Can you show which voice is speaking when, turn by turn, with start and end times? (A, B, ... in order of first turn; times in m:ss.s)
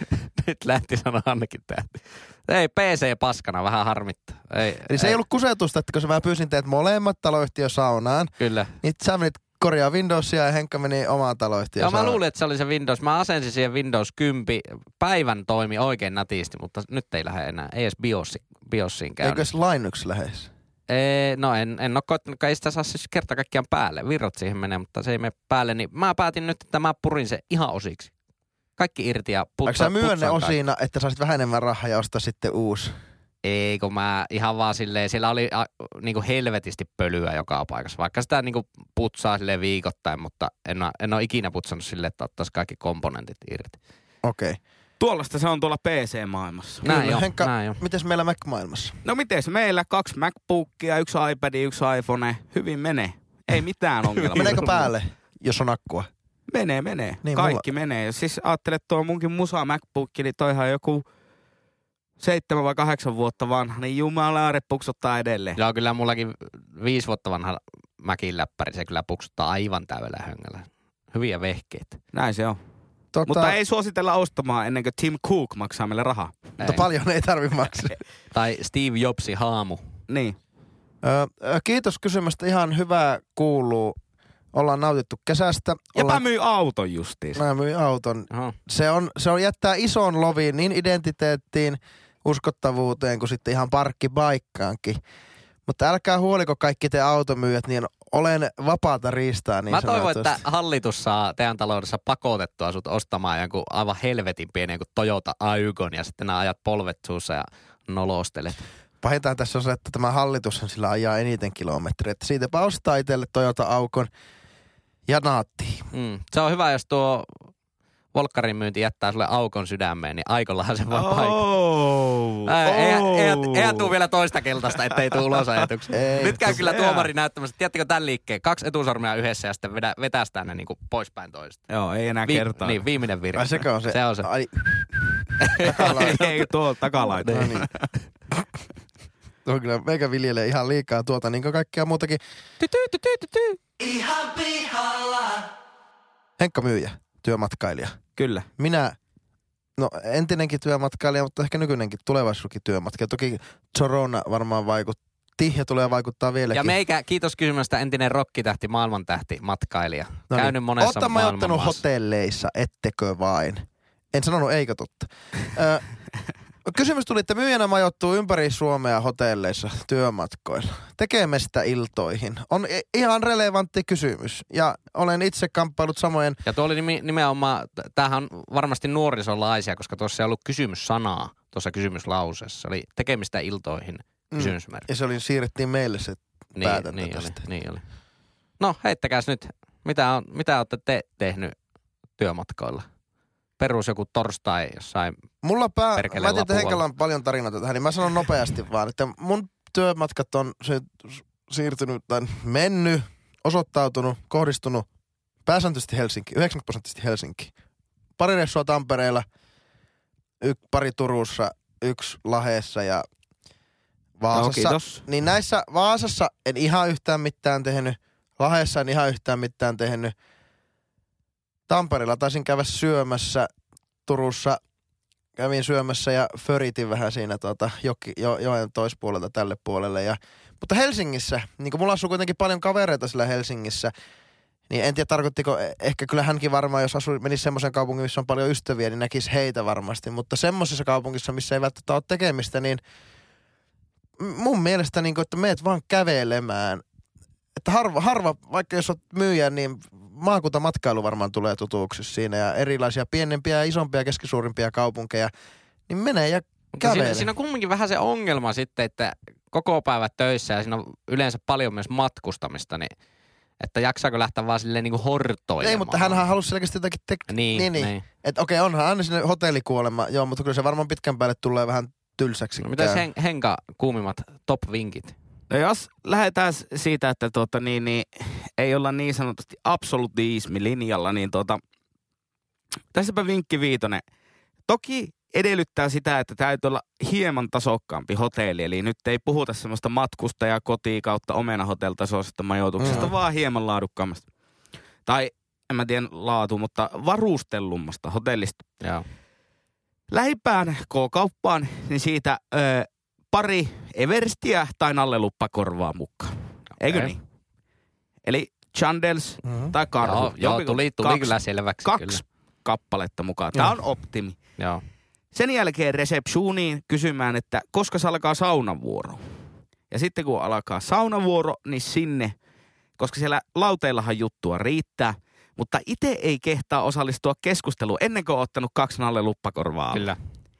0:00.4-0:05.2 A
0:04.9-0:12.2 B
0:08.4-0:08.7 A
0:11.8-0:19.5 A
0:19.2-0:20.5 B
0:20.9-0:28.1 A
0:28.8-0:30.6 A
0:29.7-0:32.9 B
0:33.4-0:43.8 A
0:44.2-0:44.6 B
0:45.0-0:46.8 C
0:46.8-0:47.8 A
0:46.8-0:49.0 B
0:49.0-0:54.8 C
0:54.2-0:54.9 A
0:54.4-0:56.1 B
0:56.5-1:01.0 C
0:57.2-0:57.6 B
1:02.2-1:05.6 C
1:05.6-1:12.0 A
1:12.1-1:12.6 C
1:13.1-1:13.6 B
1:13.3-1:16.6 C
1:16.6-1:18.0 B
1:16.6-1:16.9 A
1:18.3-1:19.8 A
1:20.1-1:20.4 C
1:21.0-1:24.0 B
1:24.5-1:26.2 B
1:26.0-1:27.4 C
1:27.4-1:35.0 B
1:35.7-1:40.4 B
1:39.7-1:48.6 A
1:49.0-1:54.1 B
1:55.1-1:55.9 B
1:55.9-1:57.3 A
1:58.1-2:01.4 A
2:00.9-2:03.9 C
2:02.5-2:11.6 A
2:04.9-2:05.7 C
2:05.9-2:06.6 B
2:06.2-2:07.1 C
2:11.7-2:12.8 C
2:12.3-2:14.3 A
2:13.3-2:16.2 B
2:15.4-2:16.4 A
2:15.6-2:17.9 C
2:17.2-2:17.6 A
2:17.2-2:17.7 B
2:19.5-2:22.2 B
2:22.6-2:23.6 A
2:26.4-2:28.0 B
2:28.2-2:28.5 C
2:28.6-2:29.0 B
2:29.8-2:36.8 B
2:36.5-2:41.8 A
2:40.3-2:45.8 B
2:46.7-2:56.4 B
2:56.5-3:04.9 A
3:04.3-3:07.4 B
3:06.6-3:07.8 A
3:08.6-3:11.6 A
3:12.2-3:12.9 A
3:13.6-3:15.2 A
3:15.4-3:24.9 B
3:16.0-3:16.8 A
3:25.5-3:27.5 B
3:28.2-3:29.3 B
3:30.4-3:33.1 B
3:34.2-3:40.1 B
3:34.3-3:35.0 C
3:41.7-3:43.5 B
3:44.1-3:44.6 B
3:45.4-3:53.9 B
3:54.7-4:02.8 B
4:04.2-4:06.8 B
4:07.6-4:15.3 B
4:15.9-4:17.3 B
4:16.8-4:22.9 A
4:23.6-4:26.2 A
4:25.6-4:33.0 B
4:27.3-4:28.0 A
4:32.6-4:35.2 A
4:35.5-4:41.6 C
4:42.9-4:44.0 C
4:44.7-4:54.3 C
4:52.8-4:53.1 B
4:55.1-4:58.7 C
5:00.1-5:07.2 C
5:06.8-5:07.1 A
5:08.2-5:14.4 C
5:09.4-5:09.7 B
5:10.0-5:12.2 A
5:15.3-5:19.2 C
5:19.9-5:22.4 C
5:23.0-5:30.1 C
5:29.9-5:30.2 A